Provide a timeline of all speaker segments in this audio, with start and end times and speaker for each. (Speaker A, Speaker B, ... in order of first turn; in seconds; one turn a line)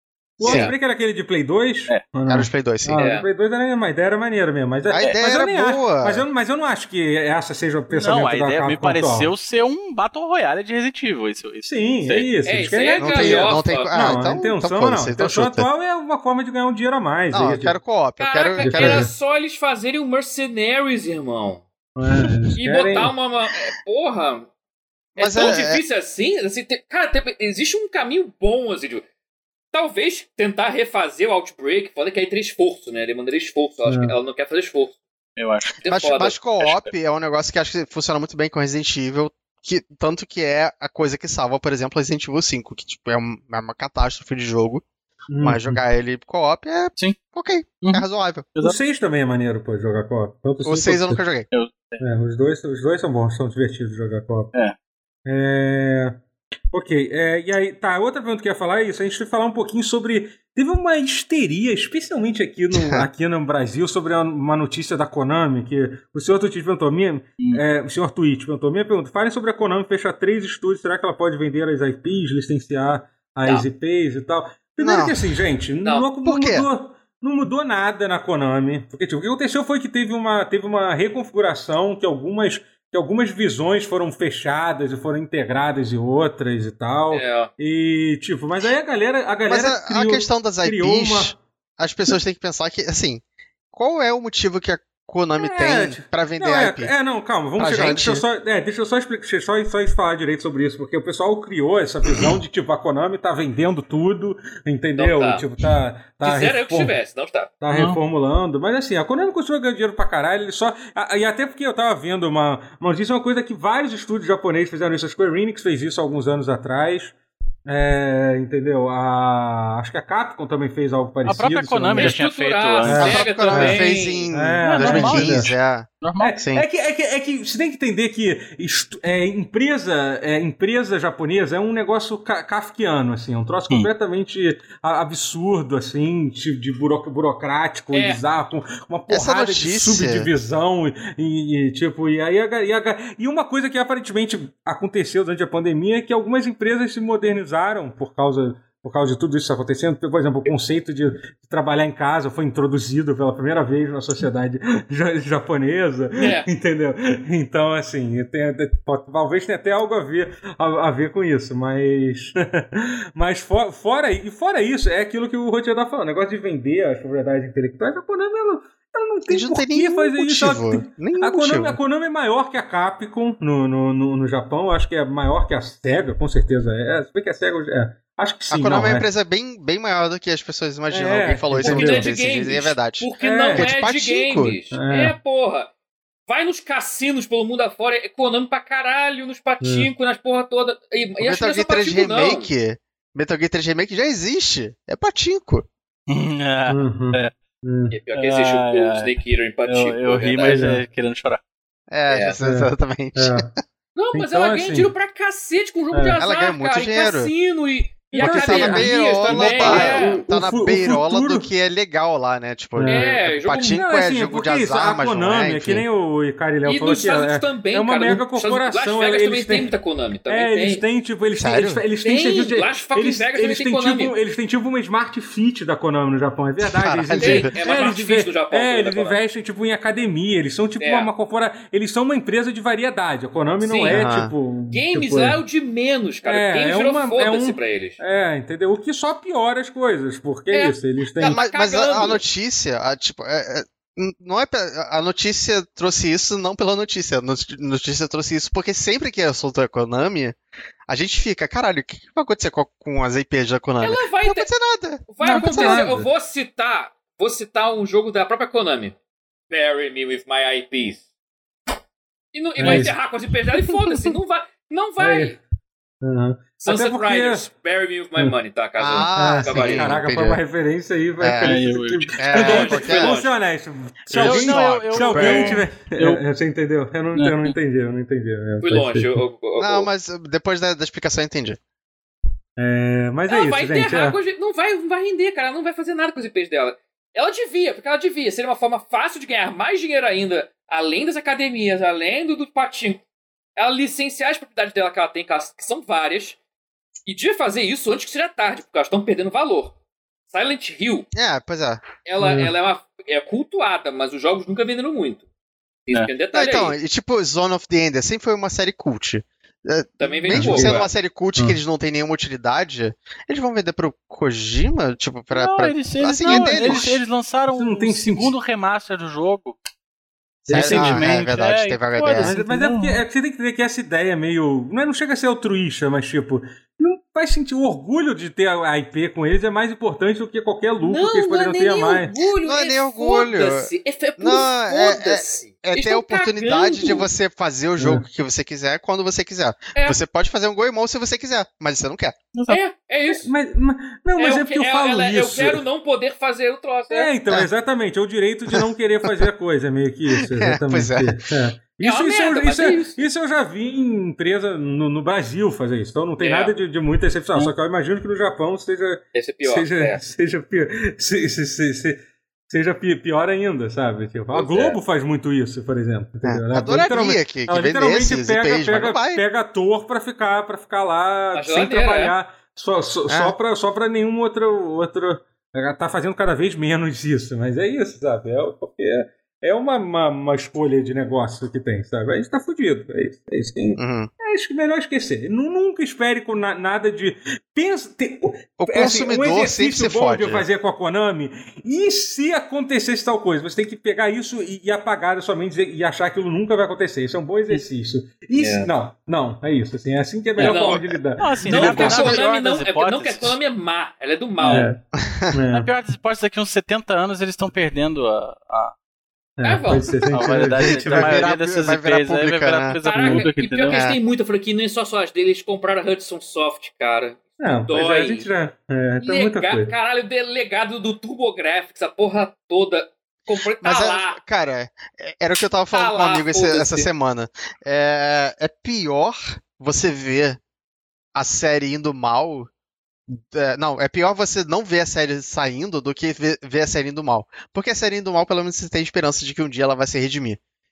Speaker A: 0.4-9.3
Speaker B: 0.4-0.7
Speaker C: 0.4-0.8
Speaker B: 2.2-3.0
Speaker C: 3.0-3.3
Speaker B: 4.9-6.3
Speaker D: 7.9-12.3
Speaker A: 11.6-17.8
Speaker C: 12.4-13.9
Speaker B: 13.0-15.7
Speaker B: 17.3-19.1
Speaker C: 18.2-21.6
Speaker A: 18.6-19.1
Speaker A: 22.0-23.1
Speaker C: 22.6-24.5
Speaker C: 25.2-29.0
Speaker B: 25.2-25.8
Speaker C: 29.7-35.0
Speaker A: 33.9-34.1
Speaker D: 35.4-35.8
Speaker C: 35.8-36.4
Speaker B: 35.9-44.8
Speaker D: 36.6-36.9
Speaker A: 45.3-45.8
Speaker B: 45.4-48.5
Speaker D: 47.8-48.8
Speaker A: 48.6-51.2
Speaker B: 50.6-51.5
Speaker D: 51.5-52.0
Speaker A: 52.0-54.5
Speaker A: 55.3-56.2
Speaker A: 56.7-91.3
Speaker B: 62.7-63.0
Speaker B: 74.8-75.2
Speaker B: 76.2-76.7
Speaker C: 87.1-87.5
Speaker B: 89.5-96.9
Speaker A: 95.4-107.0
Speaker B: 97.6-98.2
Speaker C: 105.0-105.4
Speaker C: 106.2-107.5
Speaker A: 107.6-117.2
Speaker D: 107.7-108.0
Speaker A: 117.7-122.2
Speaker D: 121.2-123.9
Speaker C: 122.0-124.3
Speaker A: 122.8-123.8
Speaker B: 122.9-126.7
Speaker A: 124.3-125.5
Speaker D: 124.6-126.3
Speaker A: 126.2-179.1
Speaker C: 137.9-138.2
Speaker B: 139.1-140.3
Speaker C: 156.2-156.5
Speaker B: 169.3-171.8
Speaker B: 178.5-184.6
Speaker A: 180.9-182.1
Speaker C: 181.6-185.7
Speaker A: 183.2-183.7
Speaker A: 184.7-185.2
Speaker C: 186.3-192.5
Speaker A: 189.6-189.9
Speaker B: 191.2-195.7
Speaker D: 196.1-197.3
Speaker A: 196.7-198.0
Speaker C: 197.9-200.6
Speaker D: 198.1-199.1
Speaker D: 199.7-201.4
Speaker A: 200.4-200.8
Speaker B: 201.9-203.6
Speaker C: 202.1-202.4
Speaker A: 202.4-203.5
Speaker C: 203.9-210.2
Speaker A: 204.1-204.9
Speaker A: 205.9-206.2
Speaker B: 206.1-207.3
Speaker A: 208.1-211.5
Speaker B: 208.2-215.8
Speaker A: 212.8-219.7
Speaker C: 212.8-213.8
Speaker C: 216.7-220.8
Speaker A: 220.3-235.4
Speaker B: 221.4-221.8
Speaker C: 222.0-224.2
Speaker B: 226.6-227.5
Speaker C: 227.2-229.2
Speaker C: 230.8-231.1
Speaker C: 233.6-234.1
Speaker B: 233.9-234.3
Speaker C: 234.7-238.0
Speaker A: 236.3-241.4
Speaker C: 240.5-242.2
Speaker B: 241.2-250.4
Speaker B: 250.9-255.9
Speaker C: 253.8-254.5
Speaker C: 255.1-258.9
Speaker A: 255.2-256.1
Speaker C: 259.5-261.0
Speaker C: 262.3-265.4
Speaker A: 262.6-263.0
Speaker D: 262.6-262.9
Speaker A: 265.0-265.4
Speaker A: 266.0-267.4
Speaker C: 266.6-270.0
Speaker B: 268.8-270.4
Speaker A: 269.2-279.2
Speaker B: 271.2-271.6
Speaker D: 271.4-272.3
Speaker B: 272.2-273.2
Speaker C: 272.3-273.3
Speaker B: 274.1-275.6
Speaker D: 274.1-276.2
Speaker D: 277.1-277.6
Speaker C: 278.6-279.9
Speaker B: 279.6-281.6
Speaker A: 282.6-284.2
Speaker C: 283.3-293.0
Speaker C: 293.6-296.4
Speaker C: 297.1-299.7
Speaker C: 300.3-301.1
Speaker B: 301.1-301.8
Speaker C: 302.0-305.2
Speaker A: 302.2-302.5
Speaker C: 305.9-306.8
Speaker B: 306.3-317.0
Speaker C: 310.0-310.9
Speaker A: 310.3-310.8
Speaker D: 315.3-319.6
Speaker A: 316.2-317.0
Speaker A: 317.5-318.4
Speaker A: 320.4-321.2
Speaker D: 320.5-323.0
Speaker B: 320.5-322.3
Speaker A: 322.2-332.1
Speaker C: 330.8-337.1
Speaker B: 332.4-342.1
Speaker A: 337.8-338.0
Speaker D: 342.4-342.6
Speaker C: 342.5-343.3
Speaker A: 343.2-345.6
Speaker C: 344.2-347.1
Speaker A: 346.9-402.2
Speaker B: 348.5-349.3
Speaker B: 350.2-351.2
Speaker C: 351.8-353.0
Speaker C: 356.2-356.6
Speaker C: 359.1-360.0
Speaker C: 364.3-364.8
Speaker B: 366.2-369.2
Speaker C: 371.3-372.1
Speaker B: 373.1-373.4
Speaker B: 383.8-384.1
Speaker B: 388.6-390.5
Speaker C: 398.4-398.7
Speaker D: 400.4-403.4
Speaker C: 400.4-400.9
Speaker C: 401.4-404.7
Speaker D: 404.4-404.7
Speaker A: 404.5-405.7
Speaker B: 404.9-405.3
Speaker D: 405.5-408.7
Speaker A: 409.4-411.3
Speaker C: 409.4-409.9
Speaker D: 410.1-413.8
Speaker B: 410.2-412.8
Speaker C: 412.8-418.3
Speaker B: 413.7-414.0
Speaker A: 417.4-419.7
Speaker C: 419.0-424.2
Speaker B: 423.6-430.4
Speaker C: 425.7-426.9
Speaker B: 431.1-432.5
Speaker B: 433.1-440.4